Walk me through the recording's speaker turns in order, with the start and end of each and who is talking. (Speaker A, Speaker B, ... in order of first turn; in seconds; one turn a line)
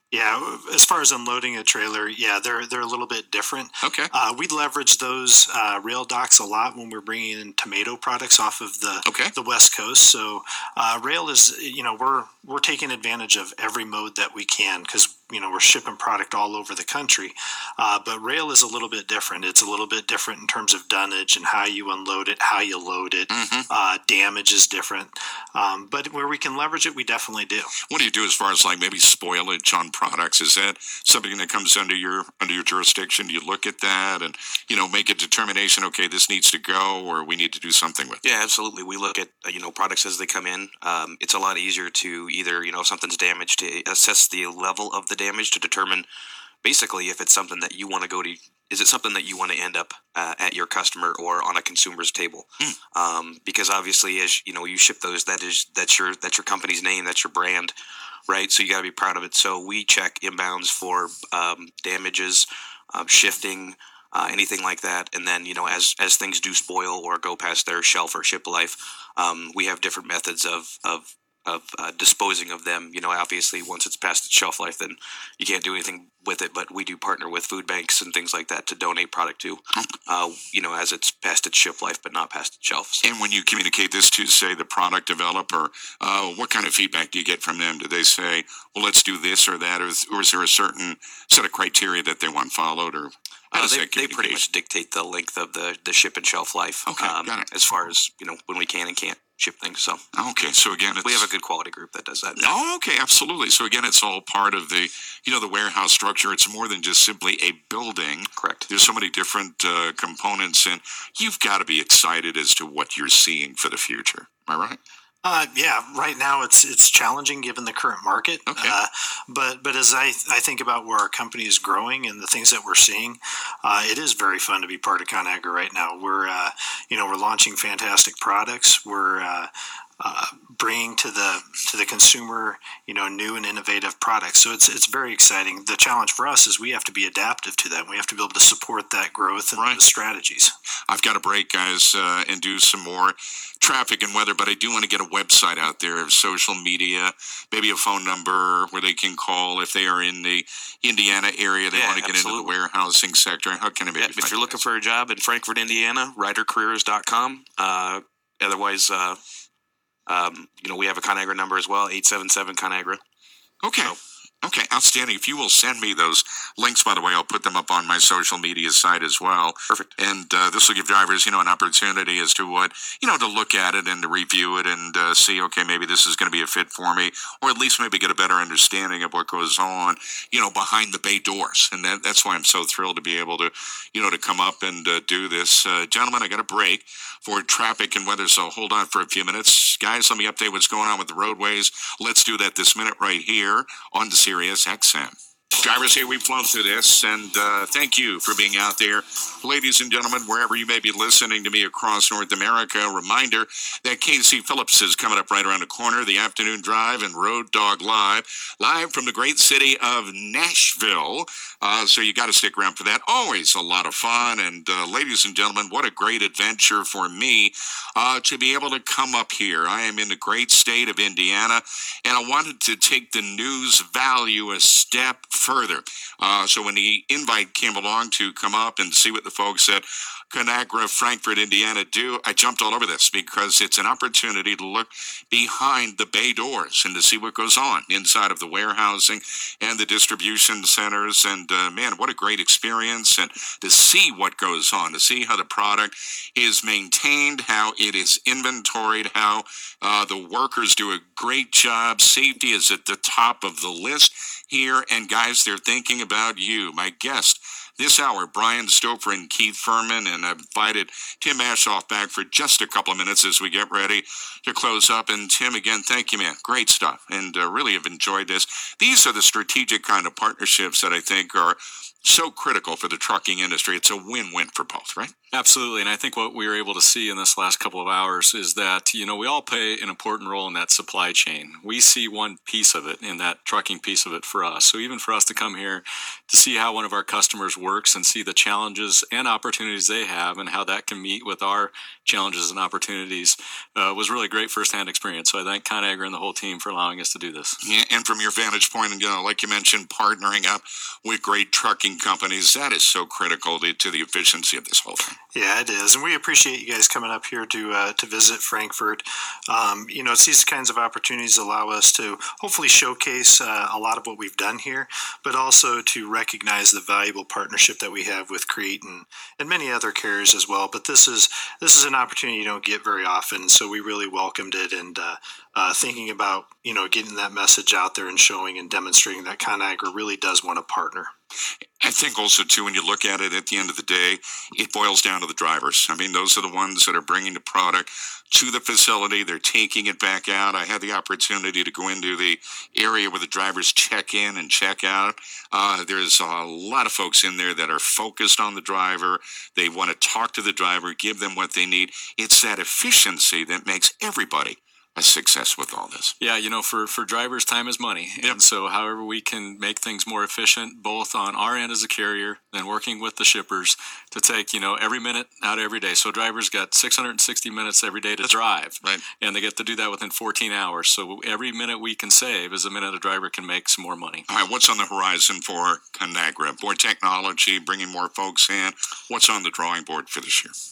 Speaker A: 0.1-27.7
Speaker B: 3.8-4.1
Speaker B: 9.1-9.3
Speaker B: 23.3-23.7
Speaker B: 27.8-38.2
Speaker C: 38.2-46.1
Speaker C: 46.6-57.7
Speaker C: 58.3-83.0
Speaker B: 83.0-94.4
Speaker C: 93.5-100.0
Speaker B: 96.8-97.6
Speaker B: 100.1-101.3
Speaker C: 101.0-102.5
Speaker B: 102.4-114.8
Speaker C: 108.4-108.7
Speaker A: 115.2-140.5
Speaker B: 118.5-118.8
Speaker B: 139.6-139.8
Speaker B: 140.9-154.6
Speaker C: 151.7-152.5
Speaker C: 154.0-159.2
Speaker C: 160.1-163.0
Speaker B: 163.6-275.1
Speaker C: 169.7-169.9
Speaker D: 275.3-297.6
Speaker B: 297.6-305.1
Speaker A: 305.3-331.1
Speaker B: 331.8-356.1
Speaker D: 356.2-374.2
Speaker B: 368.2-369.0
Speaker B: 374.3-380.5